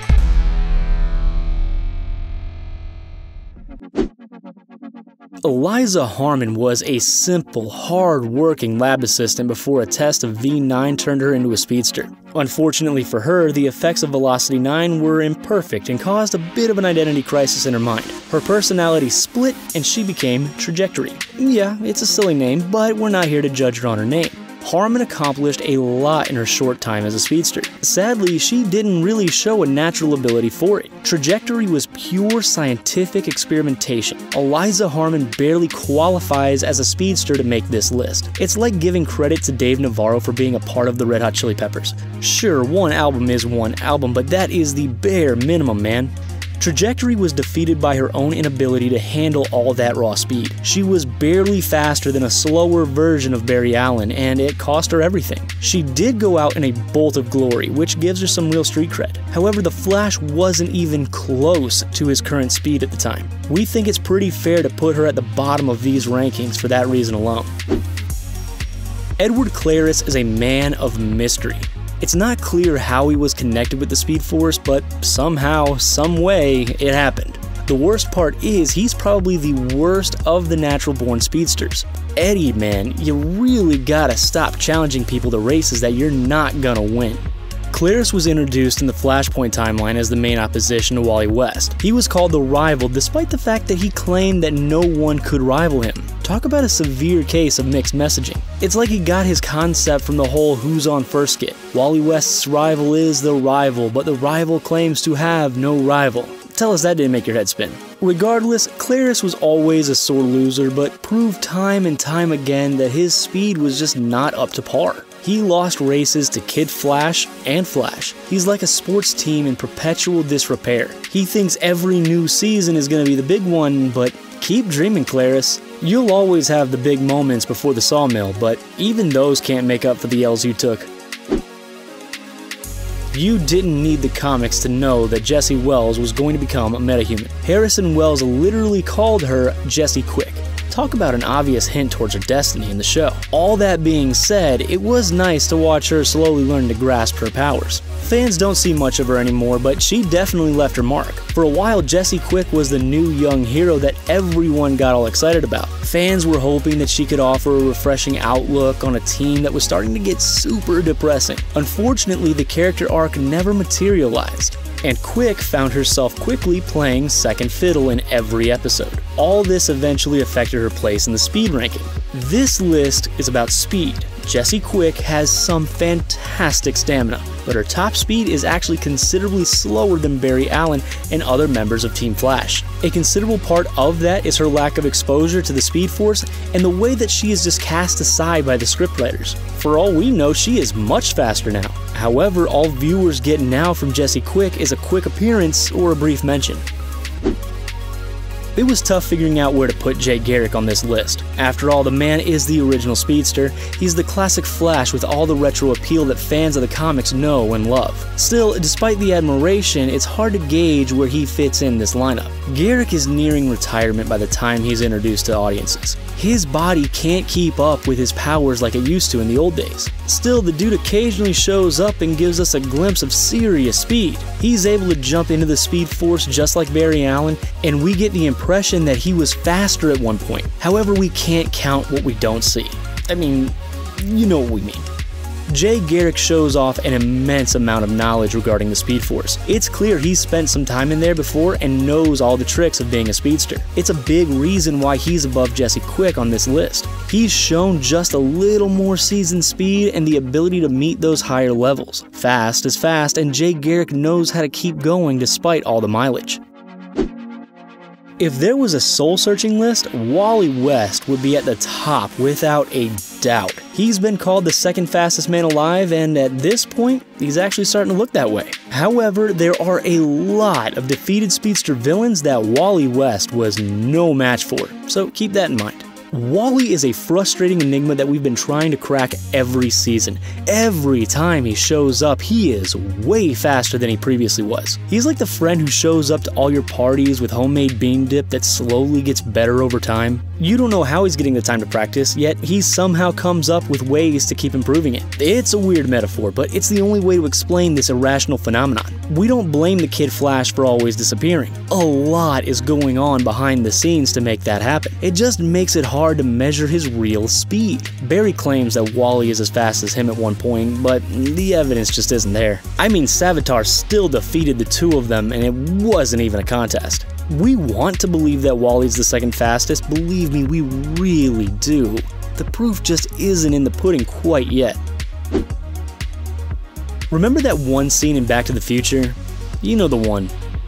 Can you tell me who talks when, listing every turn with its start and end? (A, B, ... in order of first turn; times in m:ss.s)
0:05.4-1:07.5 A
1:09.2-2:10.9 A
2:13.1-3:16.6 A
3:18.6-3:54.9 A
3:55.5-4:16.4 A
4:18.2-5:24.8 A
5:27.1-5:30.3 A